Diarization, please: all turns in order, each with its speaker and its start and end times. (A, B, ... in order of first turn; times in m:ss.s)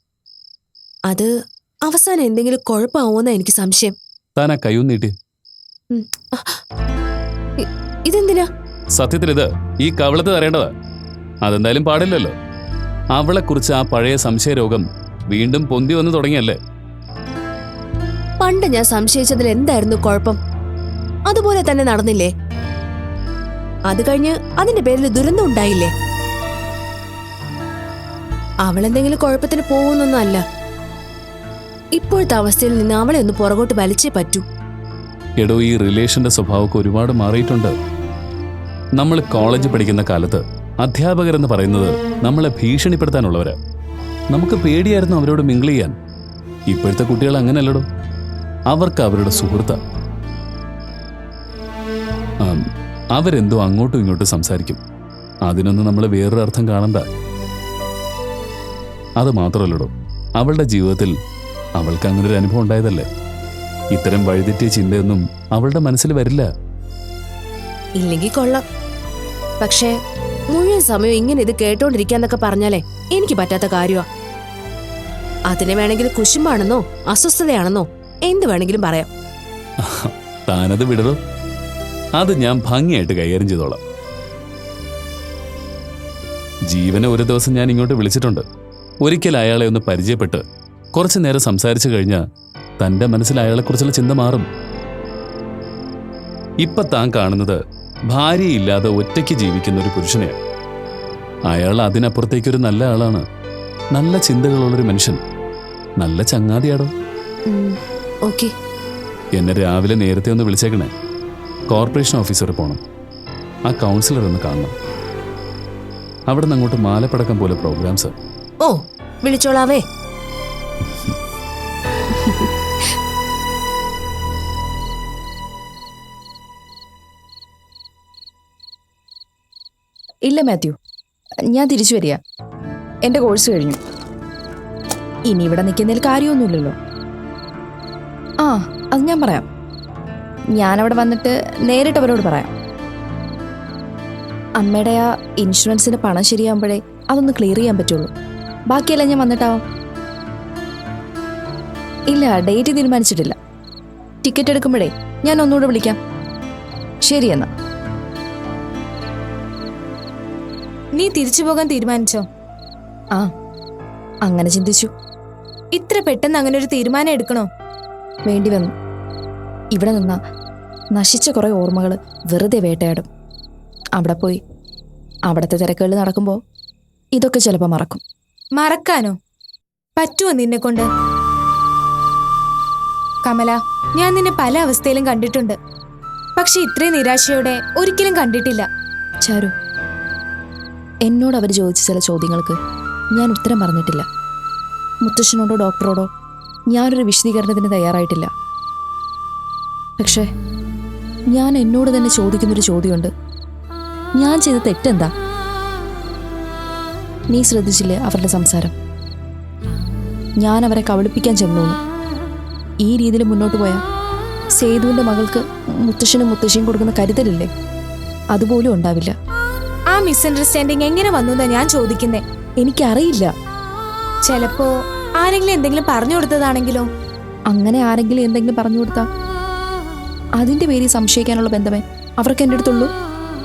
0:01.8-0:04.0 A
0:04.4-0:05.1 B
0:05.9-0:06.5 A
0:07.6-0:08.5 A
0:09.0-0:10.7 B
0:11.4-0:12.3 B
0:13.1-0:16.6 B
0:18.4-0:20.4 A
0:21.3-0:22.3 A
0:23.9-0:25.9 A
0:28.6-0:30.4 A
0:31.9-0:34.4 A
0:35.4-0:37.7 B
0:39.0-0:43.6 B
0:44.3-0:45.9 B
0:46.7-0:47.8 B
0:48.7-0:49.8 B
0:53.2-0:54.8 B
0:55.5-0:57.0 B
0:59.2-1:01.1 B
1:01.8-1:03.1 B
1:03.9-1:06.5 B
1:08.0-1:08.6 A
1:09.6-1:09.9 A
1:10.5-1:14.1 A
1:15.5-1:19.1 A
1:19.8-1:21.2 B
1:22.2-1:23.8 B
1:26.7-1:28.4 B
1:29.0-1:30.4 B
1:31.0-1:32.2 B
1:32.8-1:34.5 B
1:36.6-1:37.6 B
1:38.1-1:40.4 B
1:41.5-1:43.2 B
1:44.0-1:45.2 B
1:46.0-1:46.9 B
1:47.5-1:48.5 A
1:49.4-1:50.9 B
1:51.7-1:52.8 B
1:53.7-1:54.7 B
1:56.3-1:58.1 B
1:58.6-1:59.8 A
2:02.2-2:02.5 A
2:10.3-2:10.8 C
2:11.5-2:12.2 C
2:13.1-2:13.8 C
2:15.3-2:16.8 C
2:18.4-2:19.4 C
2:20.6-2:22.5 C
2:24.6-2:28.1 C
2:28.7-2:29.6 C
2:32.1-2:33.4 C
2:34.2-2:36.0 C
2:37.1-2:37.5 C
2:41.0-2:42.3 D
2:44.3-2:44.9 C
2:45.7-2:47.5 D
2:48.3-2:48.7 C
2:49.8-2:50.2 C
2:51.0-2:53.0 C
2:54.0-2:54.4 C
2:55.3-2:56.4 C
2:57.2-2:58.0 C
2:58.6-2:59.2 D
3:00.0-3:00.9 D
3:03.2-3:05.6 D
3:06.4-3:08.7 D
3:11.1-3:12.6 C
3:13.2-3:14.1 C
3:15.0-3:16.1 C
3:16.7-3:18.3 C
3:21.3-3:23.1 C
3:24.2-3:25.1 C
3:27.3-3:28.7 C
3:30.4-3:31.8 C
3:32.8-3:33.8 C
3:34.6-3:37.5 C
3:38.4-3:39.2 C
3:39.9-3:42.2 D
3:42.6-3:43.3 C
3:44.3-3:46.9 D
3:47.5-3:49.1 C
3:50.4-3:52.9 C